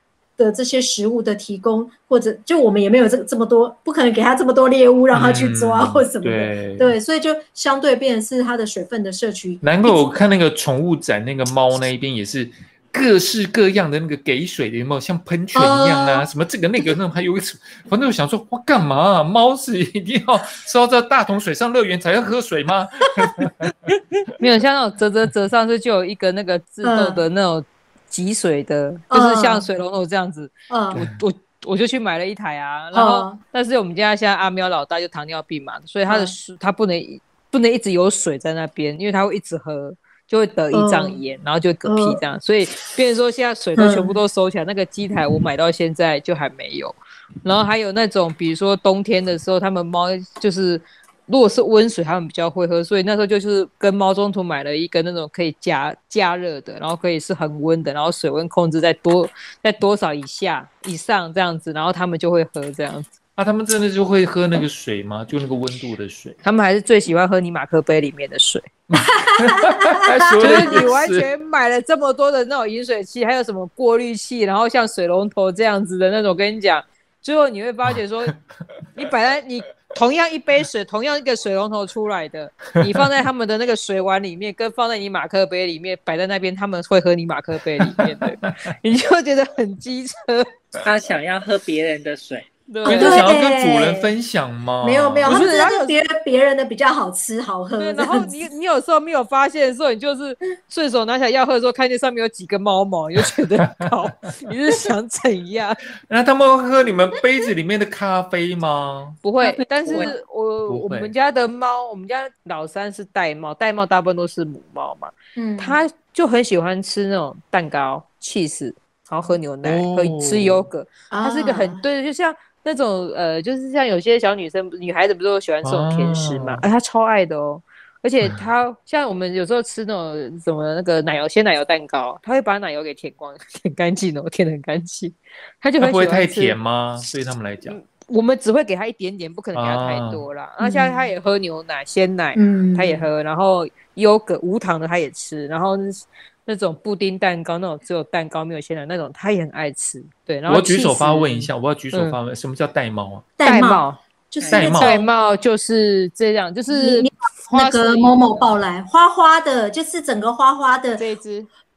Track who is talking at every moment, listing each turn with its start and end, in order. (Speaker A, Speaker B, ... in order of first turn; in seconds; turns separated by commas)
Speaker A: 0.4-10.0, Speaker B: 5.1-7.0, Speaker B: 9.6-23.7, Speaker A: 15.5-16.3, Speaker C: 24.4-63.1, Speaker A: 26.8-27.2, Speaker A: 29.1-29.6, Speaker A: 30.7-31.0, Speaker B: 30.9-31.2, Speaker A: 32.9-33.4, Speaker A: 36.1-36.3, Speaker A: 40.7-41.2, Speaker A: 41.8-42.2, Speaker A: 43.8-44.2, Speaker B: 63.4-66.4, Speaker C: 66.4-68.7, Speaker B: 68.9-71.3, Speaker A: 69.4-70.8, Speaker C: 70.4-78.3, Speaker B: 77.9-78.4, Speaker C: 78.9-90.5, Speaker B: 87.8-88.5, Speaker D: 90.8-92.5, Speaker C: 92.7-93.3, Speaker A: 92.8-94.1, Speaker B: 92.8-95.4, Speaker A: 94.8-98.3, Speaker C: 95.3-96.0, Speaker C: 97.8-105.8, Speaker B: 106.1-109.2, Speaker C: 109.2-136.6, Speaker D: 109.7-110.1, Speaker B: 110.7-111.1, Speaker A: 115.3-115.8, Speaker B: 119.6-120.7, Speaker A: 121.1-121.8, Speaker B: 125.6-126.6, Speaker B: 135.8-137.8, Speaker C: 137.7-152.2, Speaker B: 139.5-140.2, Speaker A: 140.6-141.1, Speaker A: 142.3-143.1, Speaker B: 150.5-153.3, Speaker A: 153.4-155.1, Speaker C: 153.4-154.0, Speaker D: 154.4-154.7, Speaker B: 154.5-155.0, Speaker C: 154.8-158.4, Speaker A: 156.7-161.0, Speaker C: 160.9-161.5